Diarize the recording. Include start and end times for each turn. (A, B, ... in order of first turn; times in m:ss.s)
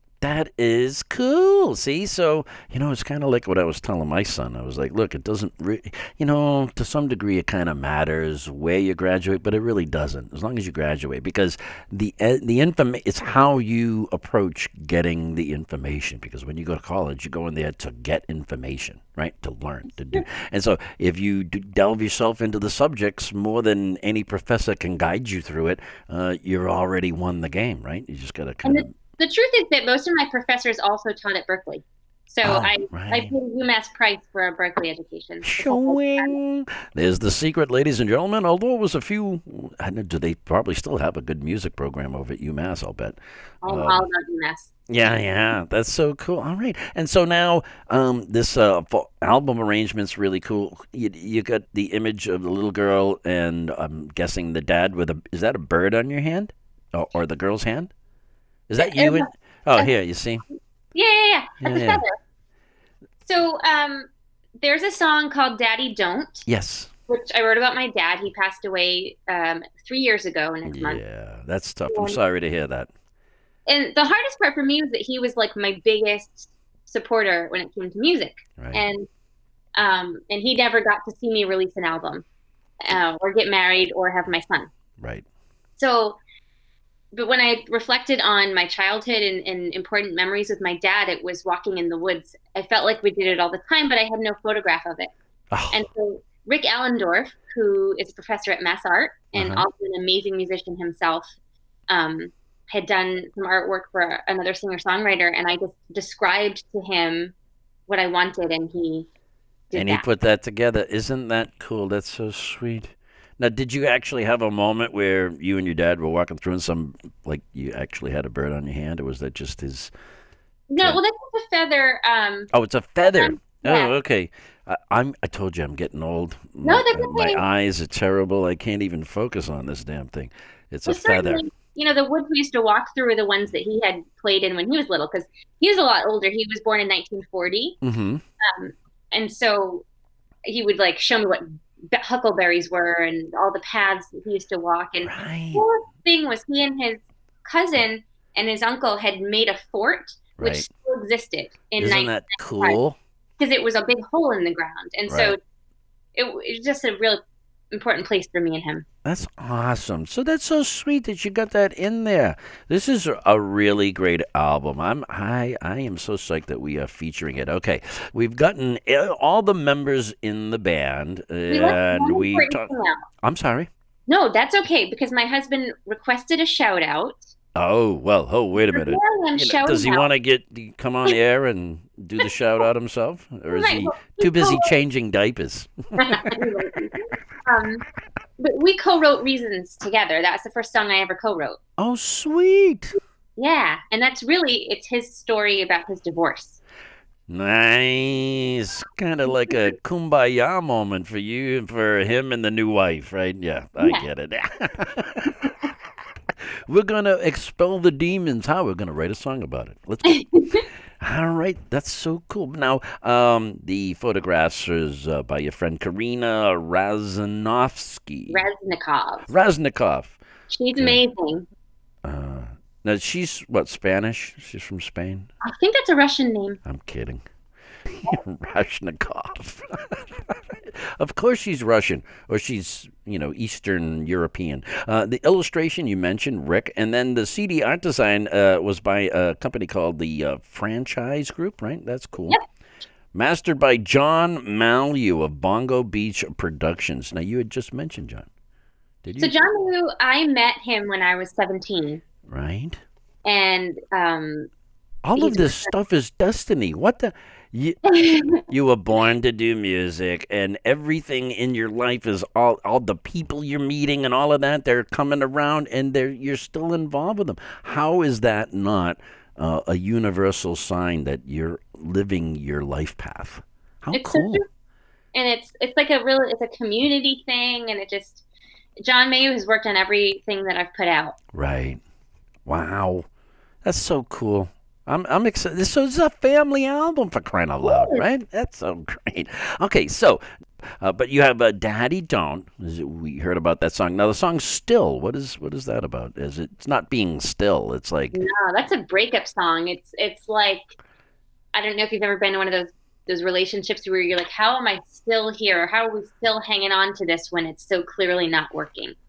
0:00.2-0:28.9 A
0:28.6-0:36.3 B
0:32.4-0:33.3 A
0:35.4-0:44.0 A
0:43.6-0:44.7 B
0:44.9-0:57.9 A
0:58.7-1:00.4 A
0:58.8-0:59.9 B
1:00.9-1:02.1 B
1:01.6-1:02.0 A
1:03.2-1:04.1 B
1:04.6-1:06.5 B
1:06.5-1:06.9 A
1:07.1-1:11.0 B
1:10.6-1:12.9 A
1:11.9-1:12.2 B
1:13.6-1:19.1 B
1:18.6-1:18.8 A
1:19.8-1:22.2 B
1:22.8-1:24.7 B
1:25.0-1:25.2 A
1:25.8-1:26.2 B
1:27.1-1:35.1 B
1:35.5-1:35.8 A
1:35.7-1:41.3 B
1:39.3-1:39.6 A
1:41.9-1:47.3 B
1:47.9-1:49.1 B
1:49.7-1:50.0 B
1:49.7-1:59.9 A
2:00.7-2:02.5 B
2:02.5-2:11.4 A
2:03.0-2:03.9 B
2:06.6-2:07.4 B
2:10.9-2:17.8 B
2:17.8-2:18.2 A
2:18.4-2:19.8 B
2:20.4-2:32.8 B
2:25.0-2:25.6 A
2:30.4-2:30.7 A
2:31.8-2:33.0 A
2:33.4-2:35.4 B
2:35.1-2:35.3 A
2:36.1-2:38.8 B
2:39.0-2:52.7 A
2:51.5-2:53.0 B
2:53.2-2:53.7 A
2:54.1-2:57.2 B
2:57.5-3:06.5 A
2:58.7-3:00.1 B
3:03.5-3:04.7 B
3:06.0-3:07.8 B
3:08.4-3:11.6 B
3:11.8-3:13.0 A
3:13.4-3:16.6 B
3:17.3-3:25.7 A
3:23.8-3:24.0 B
3:26.7-3:30.2 A
3:30.1-3:30.6 B
3:31.0-3:38.4 A
3:38.3-3:39.3 B
3:39.3-3:40.2 A
3:40.5-3:41.4 B
3:42.0-3:45.3 A
3:45.4-3:46.6 B
3:46.6-3:47.2 A
3:47.9-4:02.4 A
4:03.1-4:08.3 A
4:09.0-4:09.4 A
4:09.2-4:12.0 B
4:12.3-4:12.8 A
4:13.2-4:14.5 B
4:15.0-4:17.8 A
4:15.2-4:15.7 B
4:17.9-4:18.4 B
4:18.4-4:34.4 A
4:33.9-4:34.4 B
4:35.1-4:38.2 B
4:38.8-4:41.2 B
4:41.3-4:41.8 A
4:42.4-4:43.0 A
4:43.6-4:58.2 A
4:47.6-4:48.0 B
4:58.1-5:00.7 B
5:01.5-5:09.0 B